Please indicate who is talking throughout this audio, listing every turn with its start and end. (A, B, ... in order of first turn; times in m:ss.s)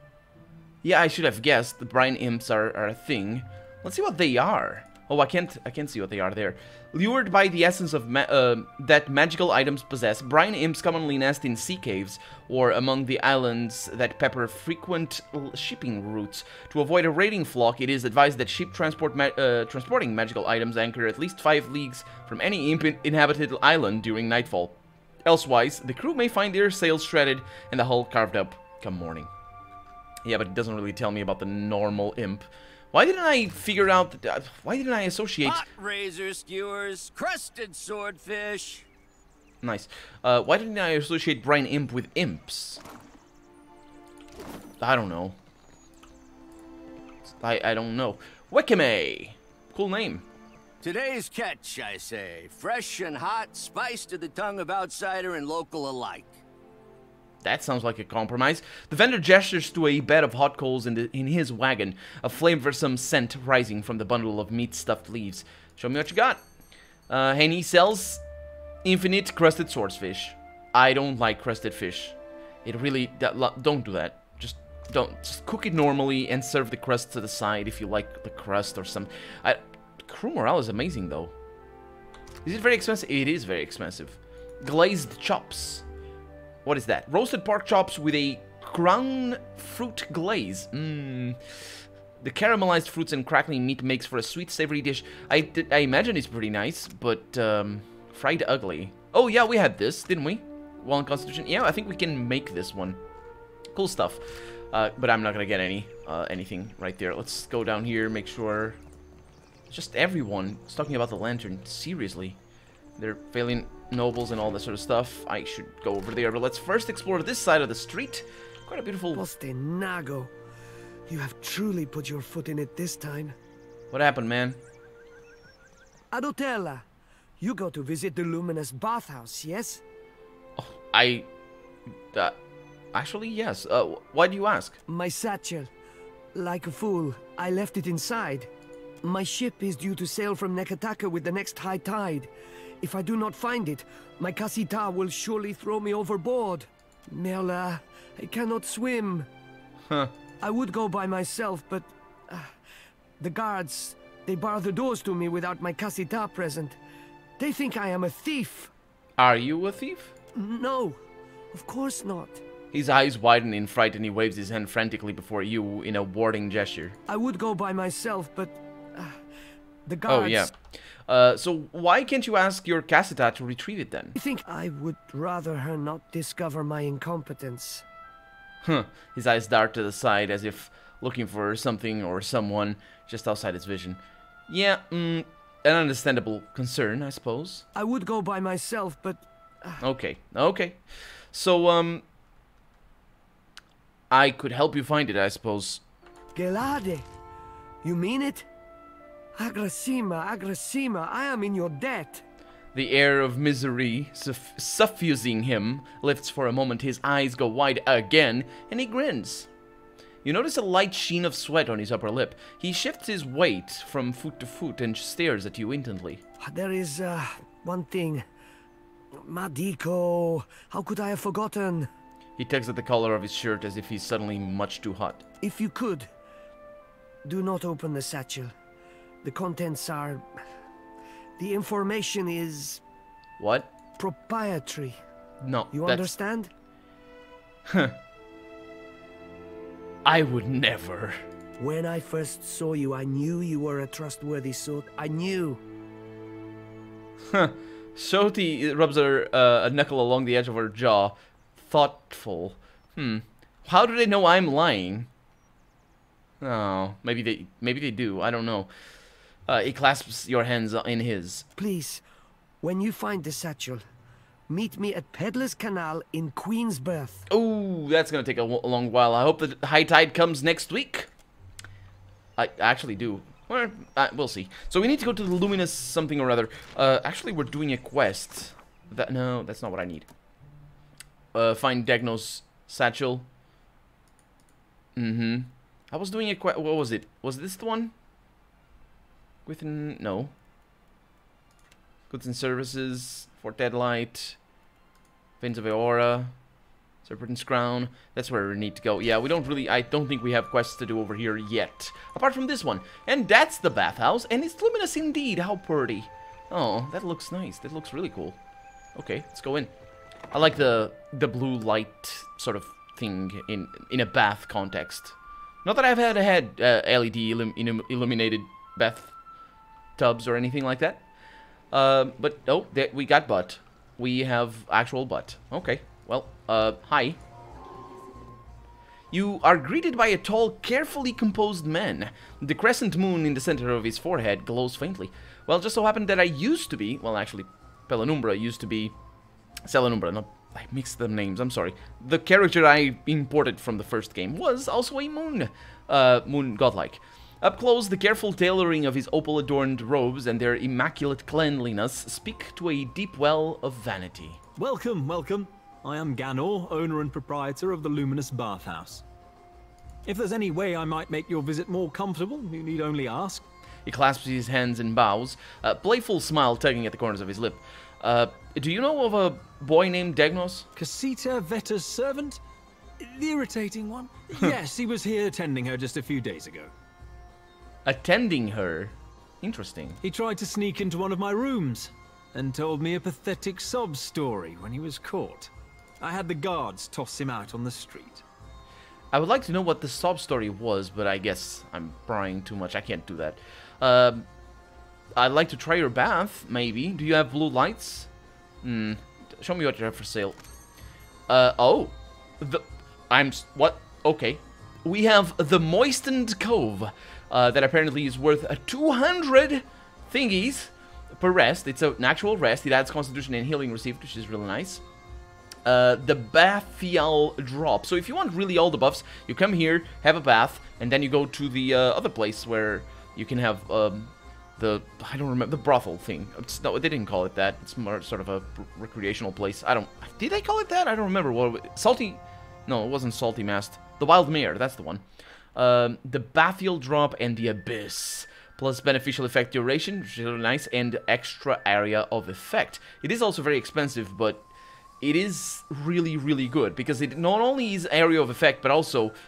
0:00.8-0:29.3 A
0:30.2-0:35.6 A
0:35.4-0:38.8 B
0:39.6-0:42.8 A
0:44.8-0:45.4 A
0:47.4-0:50.2 A
0:50.8-0:56.4 B
0:57.4-1:06.4 A
1:07.1-1:08.2 A
1:08.8-1:21.3 A
1:22.4-1:25.8 A
1:26.6-1:31.4 A
1:32.2-1:43.0 A
1:43.7-1:48.8 A
1:49.7-1:52.4 A
1:53.0-1:59.2 A
1:59.1-2:00.3 C
2:01.1-2:03.3 C
2:03.9-2:04.6 A
2:06.1-2:06.8 C
2:07.4-2:09.8 C
2:10.6-2:11.3 A
2:12.1-2:12.4 A
2:12.9-2:14.8 A
2:14.9-2:15.7 C
2:16.3-2:18.5 C
2:19.0-2:29.3 C
2:30.4-2:32.5 C
2:33.2-2:36.8 C
2:37.4-2:38.7 C
2:39.2-2:40.1 A
2:40.3-2:41.0 C
2:41.5-2:42.4 C
2:42.7-2:47.0 A
2:47.1-2:49.2 C
2:49.8-2:50.5 C
2:50.1-2:54.1 A
2:54.1-2:57.8 C
2:58.6-3:07.6 A
3:07.7-3:09.8 C
3:09.8-3:12.0 A
3:14.1-3:15.8 A
3:16.3-3:17.0 C
3:17.8-3:18.5 C
3:19.4-3:22.2 C
3:22.7-3:29.5 A
3:30.2-3:36.2 A
3:36.4-3:38.2 C
3:39.1-3:41.9 C
3:42.4-3:45.2 A
3:45.4-3:46.1 C
3:47.2-3:48.5 C
3:49.2-3:50.3 C
3:51.4-3:52.8 C
3:53.4-3:53.7 A
3:54.0-3:55.0 C
3:55.4-3:56.1 A
3:55.7-3:56.5 C
3:57.7-3:58.0 A
4:00.0-4:01.2 A
4:01.6-4:05.6 C
4:07.3-4:15.1 A
4:16.4-4:18.7 A
4:19.4-4:21.4 A
4:21.6-4:22.0 C
4:22.6-4:23.8 C
4:24.5-4:27.3 C
4:27.3-4:31.1 A
4:32.4-4:40.1 A
4:41.3-4:43.3 A
4:45.0-4:47.9 A
4:49.4-4:50.3 A
4:52.1-4:54.4 A
4:55.4-4:56.3 A
4:57.0-5:08.4 A
5:08.9-5:09.7 A
5:10.3-5:19.1 A
5:20.0-5:21.1 A
5:21.7-5:27.2 A
5:29.1-5:38.9 A
5:39.6-5:54.4 A
5:54.6-5:59.0 D
6:00.0-6:03.5 D
6:03.8-6:10.7 A
6:10.7-6:12.4 D
6:13.0-6:16.7 D
6:17.8-6:20.0 A
6:20.0-6:28.2 D
6:29.1-6:34.2 A
6:35.2-6:38.1 A
6:38.6-6:40.4 A
6:41.3-6:54.8 A
6:55.6-7:15.0 A
7:15.5-7:24.5 A
7:25.0-7:29.1 A